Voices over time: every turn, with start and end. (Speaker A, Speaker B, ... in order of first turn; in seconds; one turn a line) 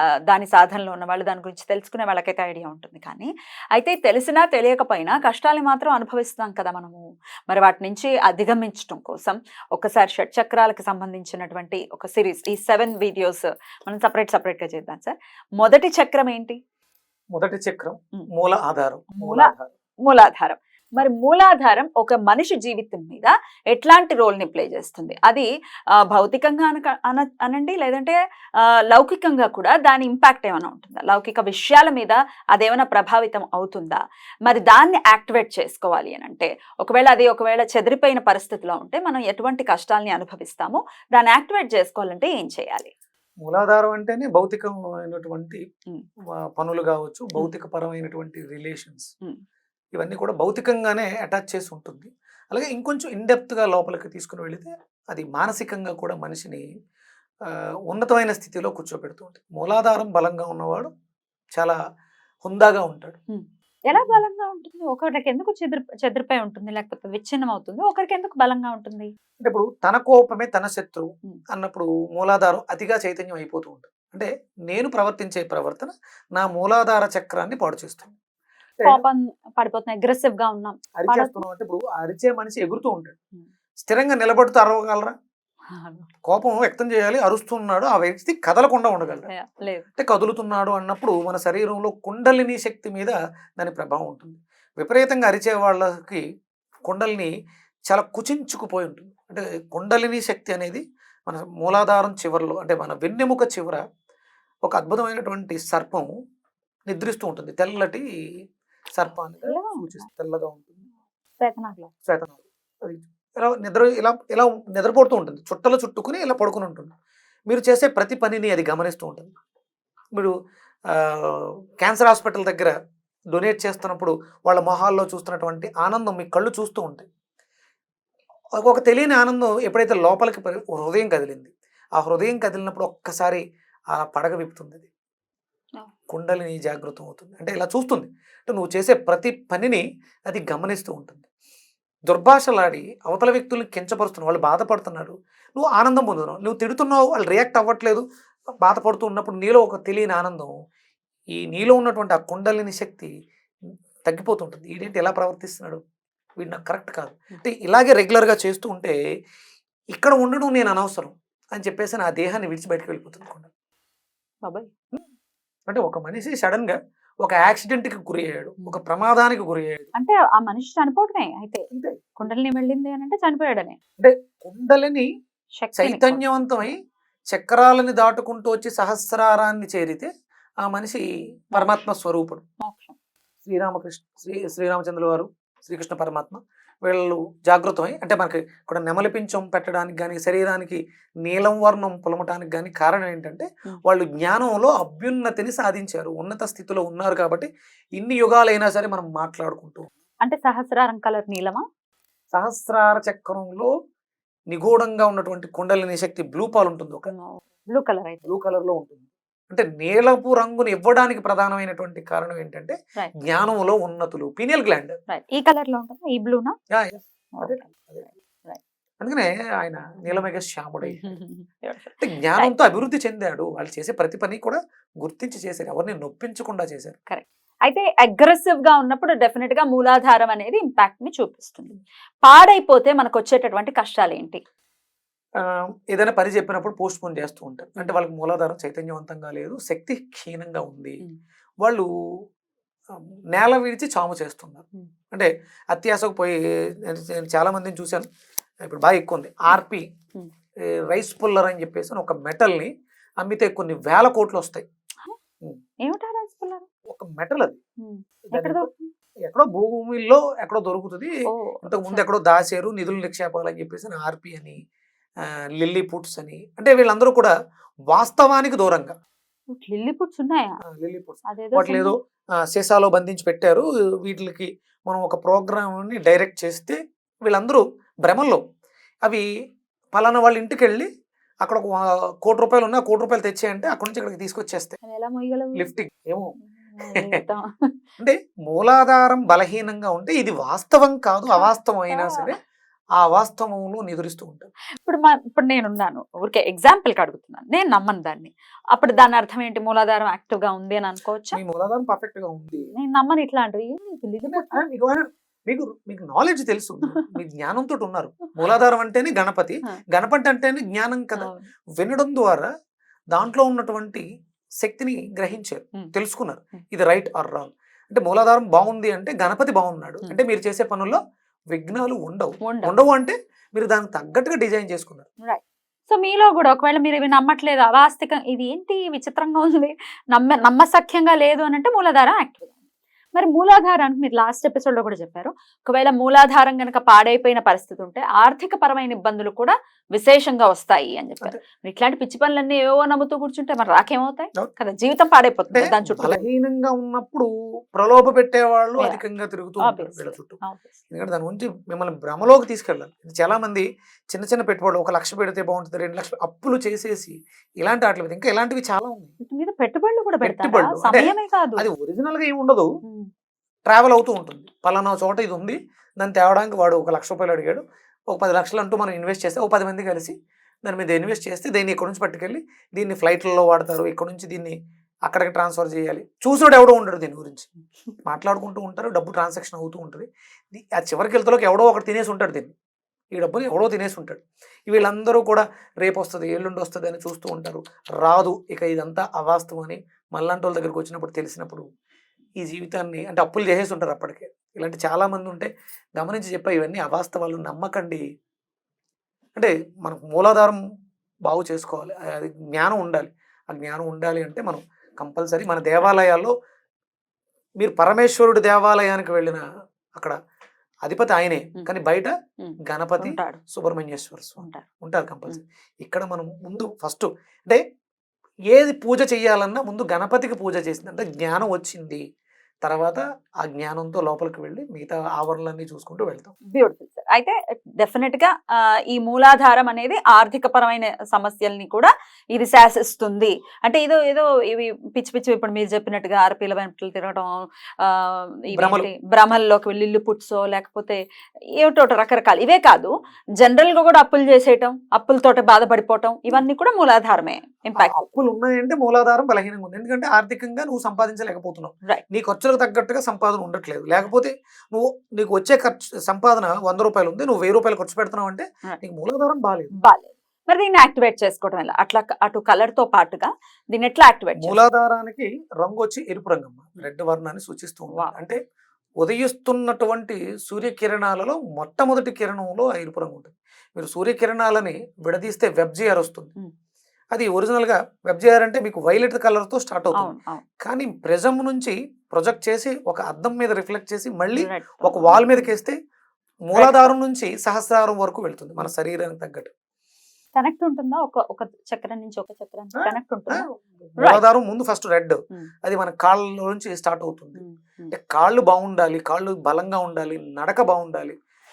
Speaker A: 0.3-16.6
Speaker B: 17.3-19.7
Speaker A: 19.1-19.5
Speaker A: 20.1-25.4
Speaker A: 26.0-42.9
Speaker B: 43.5-45.6
Speaker B: 46.5-49.1
Speaker B: 50.0-56.6
Speaker B: 57.5-60.9
Speaker B: 62.4-63.2
Speaker A: 63.3-69.1
Speaker B: 63.9-64.2
Speaker B: 69.4-78.2
Speaker A: 78.8-81.4
Speaker B: 81.0-83.2
Speaker B: 83.8-85.1
Speaker A: 85.7-86.1
Speaker B: 86.3-89.3
Speaker A: 89.3-89.9
Speaker B: 90.0-96.2
Speaker B: 96.8-97.3
Speaker B: 97.9-103.8
Speaker B: 104.6-106.1
Speaker B: 106.9-108.0
Speaker B: 109.0-110.8
Speaker A: 109.4-110.1
Speaker A: 111.4-111.9
Speaker B: 112.0-116.9
Speaker B: 117.5-119.3
Speaker B: 120.9-122.7
Speaker B: 123.3-127.0
Speaker B: 128.6-133.4
Speaker B: 133.9-134.9
Speaker B: 136.1-141.3
Speaker B: 142.1-148.0
Speaker B: 148.6-150.5
Speaker B: 151.3-153.1
Speaker B: 154.1-155.8
Speaker B: 156.4-158.9
Speaker B: 159.9-163.5
Speaker B: 165.7-169.9
Speaker A: 169.9-171.7
Speaker B: 171.7-172.1
Speaker A: 172.2-173.8
Speaker B: 174.0-175.1
Speaker A: 175.6-176.2
Speaker B: 175.8-176.8
Speaker B: 177.3-180.1
Speaker B: 180.6-182.4
Speaker A: 181.5-181.9
Speaker A: 182.6-182.9
Speaker B: 183.4-199.9
Speaker A: 200.2-201.6
Speaker B: 202.3-203.7
Speaker B: 204.5-207.1
Speaker A: 207.1-208.3
Speaker B: 208.2-214.9
Speaker A: 215.1-216.5
Speaker B: 216.7-218.1
Speaker A: 217.4-218.6
Speaker B: 219.0-221.1
Speaker A: 220.8-222.5
Speaker B: 222.0-227.0
Speaker A: 227.1-234.4
Speaker B: 235.4-241.0
Speaker B: 242.9-248.1
Speaker B: 248.7-249.9
Speaker B: 250.7-254.7
Speaker A: 255.8-256.7
Speaker B: 256.9-257.6
Speaker A: 257.8-258.9
Speaker B: 258.3-258.7
Speaker B: 259.2-261.1
Speaker A: 261.3-262.0
Speaker B: 261.6-264.6
Speaker B: 265.3-267.3
Speaker B: 267.9-268.9
Speaker A: 269.5-270.6
Speaker B: 270.7-271.9
Speaker A: 271.3-271.9
Speaker B: 272.5-278.4
Speaker B: 279.9-280.9
Speaker B: 281.4-284.8
Speaker A: 284.8-285.7
Speaker B: 285.6-286.3
Speaker A: 286.4-287.7
Speaker B: 288.0-292.4
Speaker A: 291.3-292.2
Speaker B: 293.0-294.5
Speaker A: 294.8-301.4
Speaker B: 301.3-302.7
Speaker A: 302.7-304.6
Speaker B: 304.2-312.5
Speaker A: 311.2-311.5
Speaker B: 313.1-314.0
Speaker B: 314.6-321.0
Speaker B: 321.5-325.1
Speaker A: 322.4-322.7
Speaker A: 325.2-332.6
Speaker A: 333.1-346.2
Speaker B: 345.5-350.4
Speaker A: 349.6-350.8
Speaker B: 350.9-359.1
Speaker A: 359.2-361.7
Speaker B: 360.2-362.7
Speaker A: 362.8-363.1
Speaker B: 363.7-377.5
Speaker B: 378.1-382.5
Speaker B: 383.1-391.6
Speaker B: 392.4-398.0
Speaker B: 399.4-400.6
Speaker B: 401.3-406.3
Speaker B: 407.6-409.4
Speaker B: 410.8-412.1
Speaker A: 412.4-413.4
Speaker B: 412.7-417.6
Speaker A: 414.4-414.6
Speaker B: 418.5-422.0
Speaker B: 422.6-426.4
Speaker A: 426.5-441.0
Speaker B: 438.5-438.9
Speaker A: 441.6-448.0
Speaker B: 447.8-459.7
Speaker A: 459.8-464.6
Speaker B: 464.4-468.4
Speaker B: 469.0-476.3
Speaker B: 477.1-485.8
Speaker A: 480.0-480.4
Speaker A: 484.3-485.5
Speaker B: 486.5-489.5
Speaker A: 486.6-486.9
Speaker A: 490.4-493.5
Speaker B: 492.8-501.1
Speaker A: 497.4-497.9